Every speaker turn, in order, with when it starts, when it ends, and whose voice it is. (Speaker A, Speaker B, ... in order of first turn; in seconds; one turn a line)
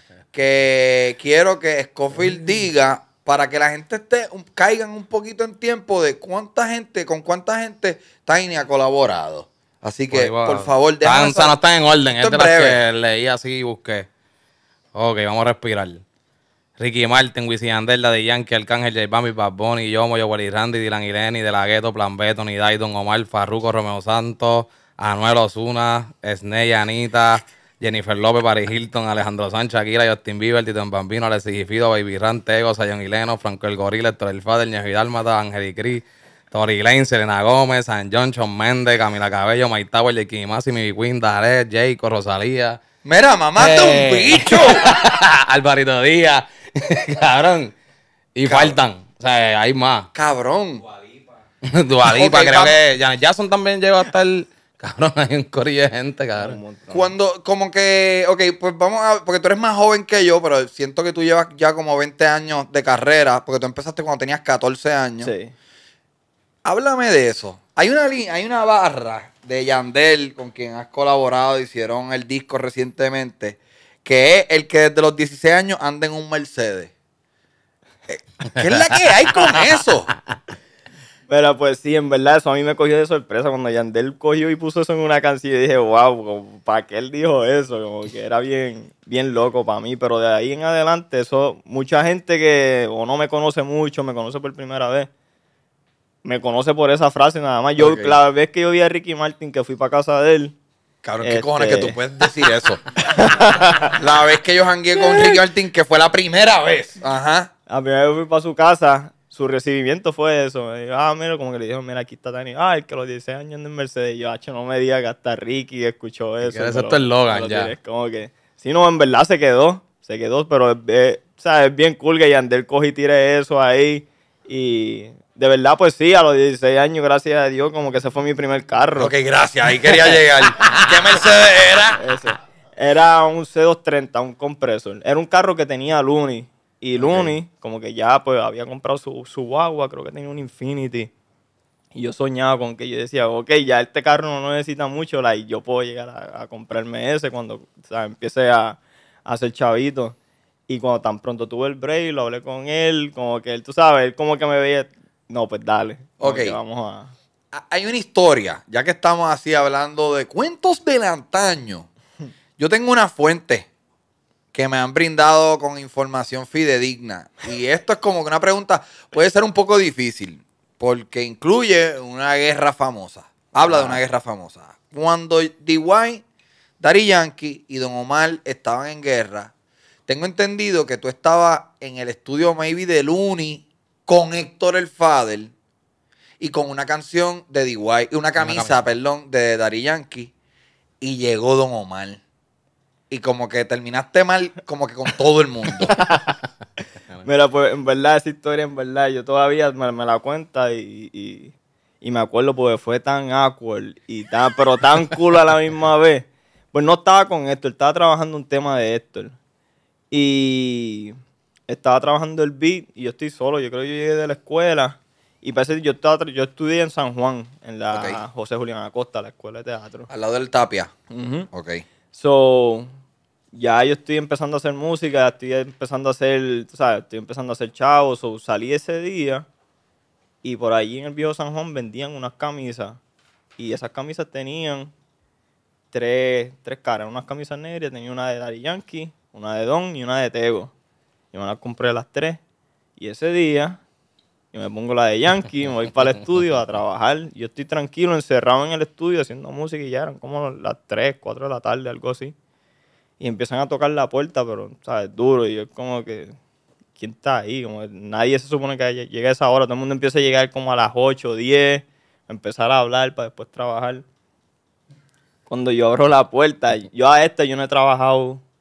Speaker A: 0.3-11.6
Speaker B: 10.1-14.1
Speaker A: 12.1-12.8
Speaker B: 14.9-16.0
Speaker B: 16.8-42.8
Speaker A: 43.0-45.0
Speaker B: 43.6-47.7
Speaker B: 48.3-50.1
Speaker A: 48.5-48.8
Speaker A: 50.1-50.8
Speaker B: 51.6-56.6
Speaker A: 52.0-52.8
Speaker C: 56.4-57.1
Speaker A: 56.9-65.3
Speaker C: 65.2-65.5
Speaker A: 66.6-76.9
Speaker A: 78.1-80.1
Speaker C: 81.3-95.1
Speaker C: 96.2-100.5
Speaker A: 97.8-98.2
Speaker A: 101.0-102.8
Speaker C: 101.2-102.2
Speaker C: 103.0-103.9
Speaker A: 103.9-107.5
Speaker C: 107.7-129.1
Speaker B: 116.4-117.7
Speaker A: 129.0-132.0
Speaker C: 129.8-130.2
Speaker C: 131.9-141.1
Speaker A: 137.0-137.3
Speaker C: 141.9-150.2
Speaker C: 150.7-157.1
Speaker A: 156.2-156.6
Speaker A: 157.5-161.9
Speaker A: 162.6-163.7
Speaker A: 164.5-176.2
Speaker C: 173.7-174.0
Speaker A: 176.8-179.5
Speaker A: 180.1-185.5
Speaker A: 186.4-190.3
Speaker B: 188.4-188.9
Speaker A: 191.0-192.2
Speaker A: 193.1-195.9
Speaker C: 195.9-196.3
Speaker C: 197.2-209.3
Speaker C: 210.1-211.2
Speaker C: 211.7-220.1
Speaker A: 217.9-218.2
Speaker A: 220.1-220.9
Speaker C: 221.1-221.5
Speaker A: 221.5-221.8
Speaker C: 222.1-222.9
Speaker C: 223.5-229.4
Speaker C: 230.4-233.0
Speaker C: 233.6-234.9
Speaker C: 235.9-240.7
Speaker C: 241.3-242.4
Speaker C: 243.0-243.8
Speaker C: 244.5-252.3
Speaker C: 253.2-256.3
Speaker C: 257.0-264.0
Speaker C: 265.5-268.4